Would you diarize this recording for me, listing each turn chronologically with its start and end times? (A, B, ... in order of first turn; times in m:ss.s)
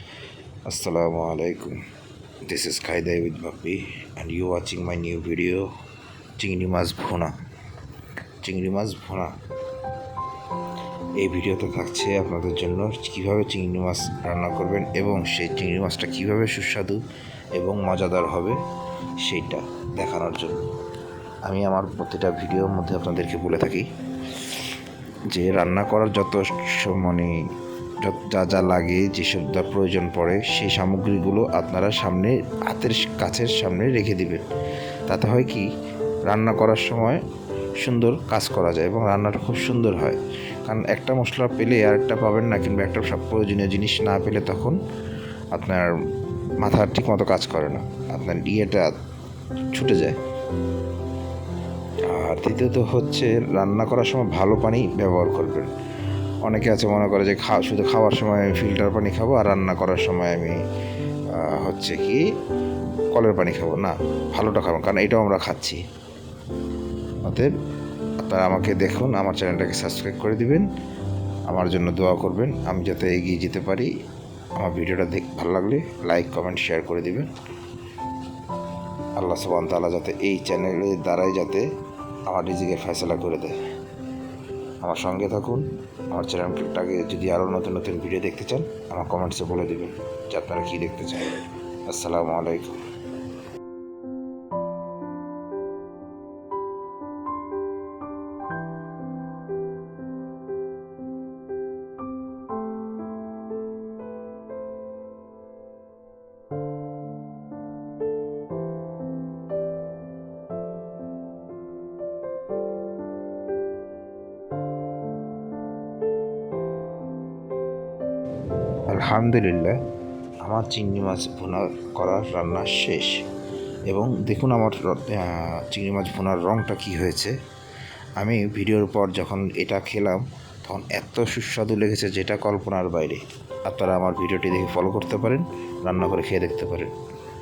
0:00.7-0:01.8 A
0:02.5-0:05.7 A
0:06.4-0:07.4 A
0:08.4-0:09.4 A
0:11.2-0:17.0 A
0:17.6-0:18.6 A
0:19.2-0:20.6 A
0:21.4-0:23.9 A
0:24.4-0:24.7 A
0:25.3-0:27.4 A
0:28.0-0:34.5 A
0:35.1-0:35.7 A
0:36.3-0:37.2 A
0:37.8-0:44.8 A
0:45.5-0:45.9 A
0:46.6-0:49.0 A
0:49.7-0:50.2 A
0:52.1-0:55.7 A
0:56.4-1:00.6 A
1:01.3-1:02.2 A
1:03.1-1:05.8 A
1:07.2-1:07.5 A
1:08.2-1:10.7 A
1:11.5-1:13.9 A
1:14.6-1:17.3 A
1:19.2-1:21.7 A
1:22.3-1:23.6 A
1:24.8-1:32.8 A
1:58.9-1:59.8 A
2:00.4-2:03.2 A
2:03.9-2:07.4 A
2:08.2-2:16.9 A